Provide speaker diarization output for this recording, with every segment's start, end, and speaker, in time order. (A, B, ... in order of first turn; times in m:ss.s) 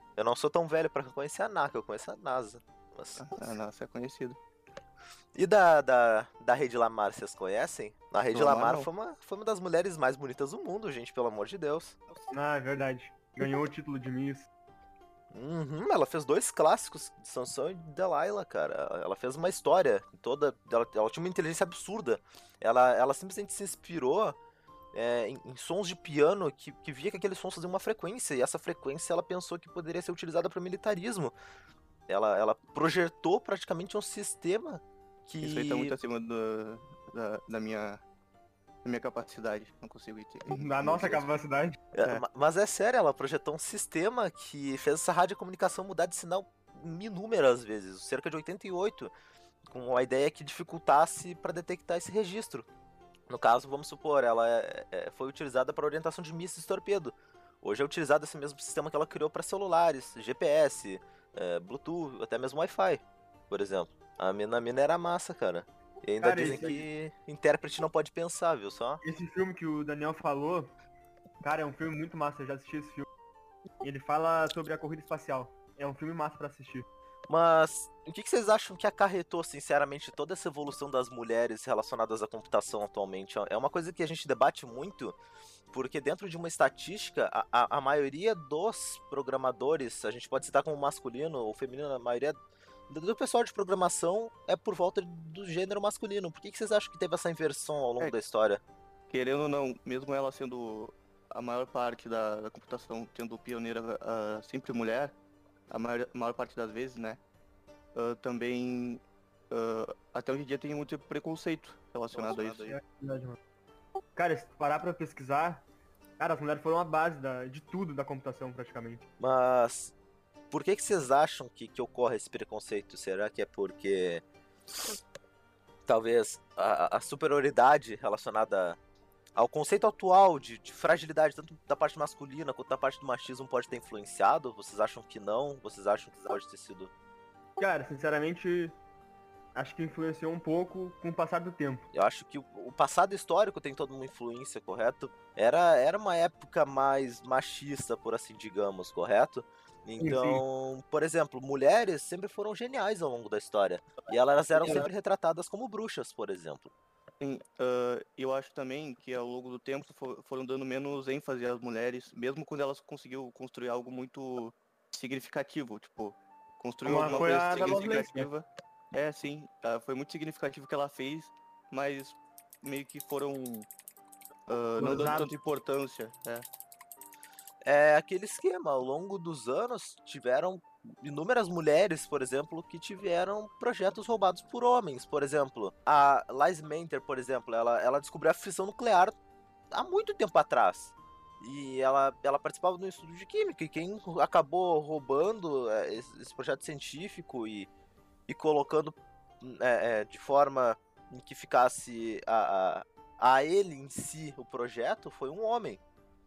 0:00.2-0:03.5 A
0:03.2-0:04.4 B
0:05.4-0:12.0 A
0:08.3-0:08.9 B
0:12.3-0:14.5 C
0:15.3-0:24.4 A
0:24.9-0:31.4 A
0:32.1-0:35.9 A
0:35.4-0:38.0 B
0:38.8-0:41.3 B
0:40.5-0:41.8 C
0:41.9-0:49.1 A
0:49.7-0:52.7 A
0:53.3-1:09.0 A
1:06.2-1:06.8 C
1:09.0-1:10.7 C
1:11.4-1:13.1 C
1:13.8-1:16.9 C
1:17.3-1:25.2 A
1:25.7-1:32.4 A
1:32.9-1:38.6 A
1:39.1-1:45.2 B
1:45.7-1:47.2 B
1:48.0-1:52.8 B
1:52.1-1:53.4 C
1:54.2-1:55.6 C
1:56.2-1:59.0 C
1:59.2-2:00.0 A
2:00.5-2:04.2 A
2:05.9-2:08.8 A
2:09.4-2:16.9 A
2:17.6-2:18.8 C
2:19.6-2:21.8 C
2:21.9-2:36.7 A
2:30.0-2:30.4 C
2:34.6-2:34.9 C
2:37.2-2:53.7 B
2:46.8-2:48.3 C
2:54.5-2:56.5 B
2:54.8-2:55.3 C
2:57.7-3:09.1 A
3:09.7-3:17.7 A
3:18.3-3:25.8 A